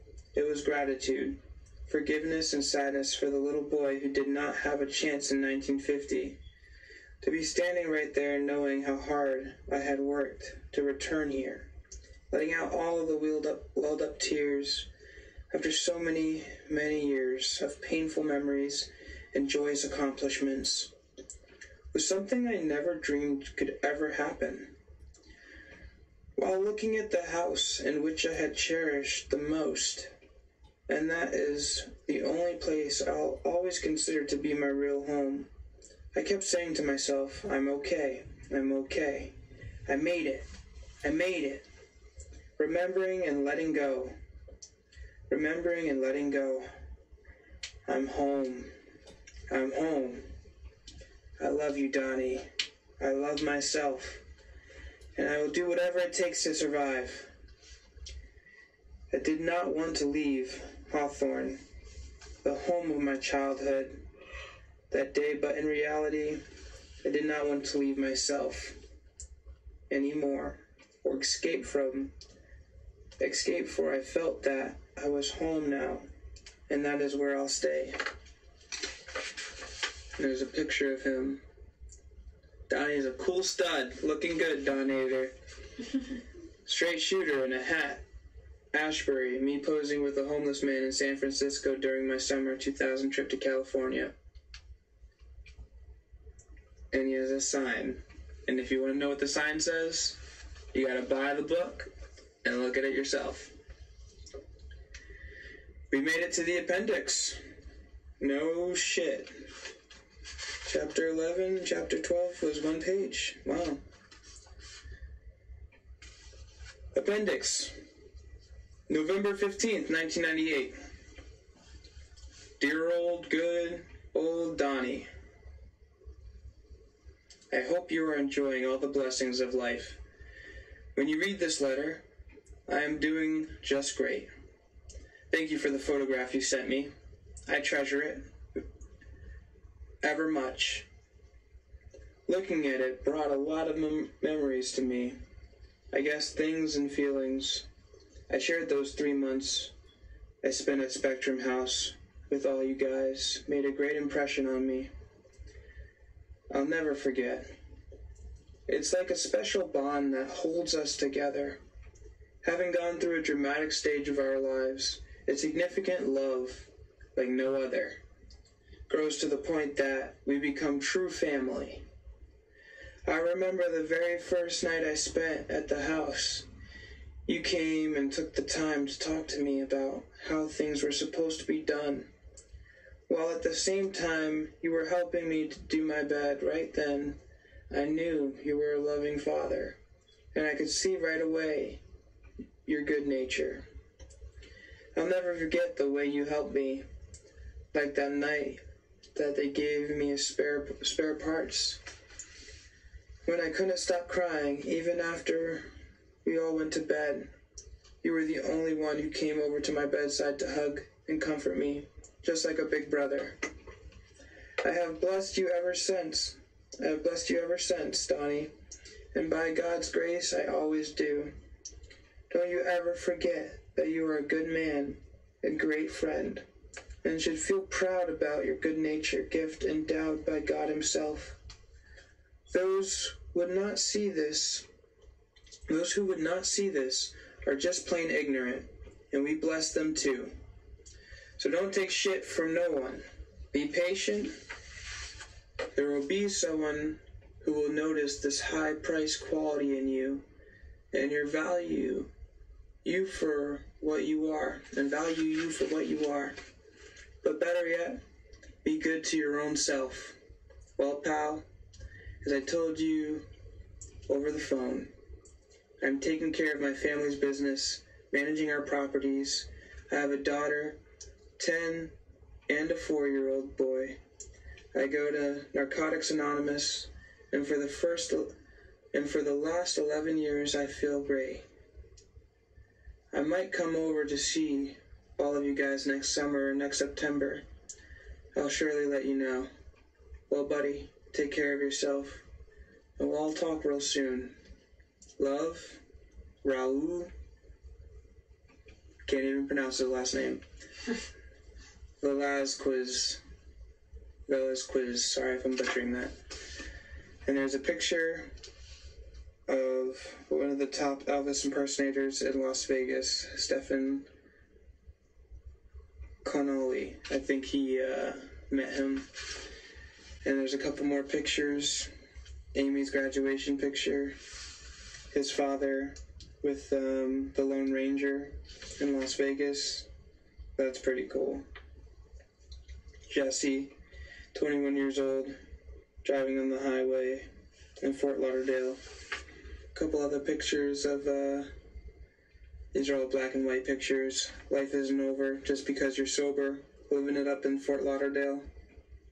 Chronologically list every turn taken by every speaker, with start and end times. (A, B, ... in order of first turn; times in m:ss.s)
0:00.3-0:06.4 A
0:07.2-0:11.7 A
0:12.3-0:14.9 A
0:15.5-0:20.9 A
0:21.9-0:24.7 A
0:26.4-0:30.1 A
0:30.9-0:35.5 A
0:36.1-0:39.3 A
0:39.8-0:40.4 A
0:41.0-0:41.6 A
0:42.6-0:44.2 A
0:45.3-0:46.7 A
0:47.8-0:48.7 A
0:49.5-0:50.2 A
0:51.4-0:52.5 A
0:53.0-0:54.2 A
0:55.1-0:57.3 A
0:59.1-1:01.6 A
1:02.4-1:04.0 A
1:04.9-1:06.4 A
1:07.0-1:08.8 A
1:09.9-1:12.1 A
1:13.2-1:16.1 A
1:16.7-1:18.0 A
1:20.2-1:21.4 A
1:22.7-1:25.3 A
1:26.6-1:28.0 A
1:28.7-1:34.1 A
1:36.9-1:40.2 A
1:40.7-1:41.9 A
1:42.4-1:43.5 A
1:45.9-1:47.4 A
1:48.2-1:49.3 A
1:50.6-1:53.8 A
1:56.9-1:57.7 A
1:58.9-2:00.8 A
2:02.6-2:05.1 A
2:07.5-2:10.0 A
2:10.9-2:12.0 A
2:12.7-2:14.3 A
2:15.3-2:16.9 A
2:17.5-2:18.2 A
2:20.0-2:20.9 A
2:22.3-2:25.2 A
2:25.9-2:27.6 A
2:28.3-2:29.7 A
2:30.4-2:34.9 A
2:36.5-2:37.5 A
2:38.7-2:41.6 A
2:42.4-2:48.0 A
2:48.9-2:51.8 A
2:53.0-2:56.4 A
2:57.2-3:02.1 A
3:03.1-3:07.2 A
3:07.7-3:09.8 A
3:10.3-3:11.8 A
3:12.6-3:13.6 A
3:14.9-3:16.8 A
3:17.7-3:18.6 A
3:19.1-3:21.8 A
3:23.2-3:25.7 A
3:26.2-3:27.3 A
3:28.0-3:33.4 A
3:34.6-3:38.5 A
3:39.1-3:41.3 A
3:42.3-3:46.4 A
3:47.0-3:51.4 A
3:52.5-3:54.6 A
3:55.7-4:00.3 A
4:01.4-4:04.3 A
4:05.7-4:10.2 A
4:10.9-4:12.1 A
4:12.8-4:16.3 A
4:17.2-4:18.0 A
4:18.6-4:20.2 A
4:20.8-4:21.4 A
4:22.2-4:23.2 A
4:24.1-4:24.9 A
4:25.8-4:30.8 A
4:31.4-4:31.9 A
4:32.5-4:34.0 A
4:34.7-4:38.3 A
4:38.9-4:41.4 A
4:43.1-4:47.4 A
4:48.3-4:49.5 A
4:50.3-4:52.2 A
4:53.0-4:54.3 A
4:55.2-4:55.8 A
4:56.4-4:57.1 A
4:59.0-5:00.4 A
5:02.0-5:03.2 A
5:04.3-5:06.1 A
5:07.2-5:08.3 A
5:09.5-5:14.1 A
5:16.2-5:19.1 A
5:20.2-5:21.9 A
5:22.5-5:24.2 A
5:25.1-5:29.8 A
5:30.6-5:31.4 A
5:33.1-5:33.7 A
5:34.3-5:35.3 A
5:36.0-5:37.3 A
5:37.8-5:38.8 A
5:39.7-5:41.5 A
5:42.7-5:48.4 A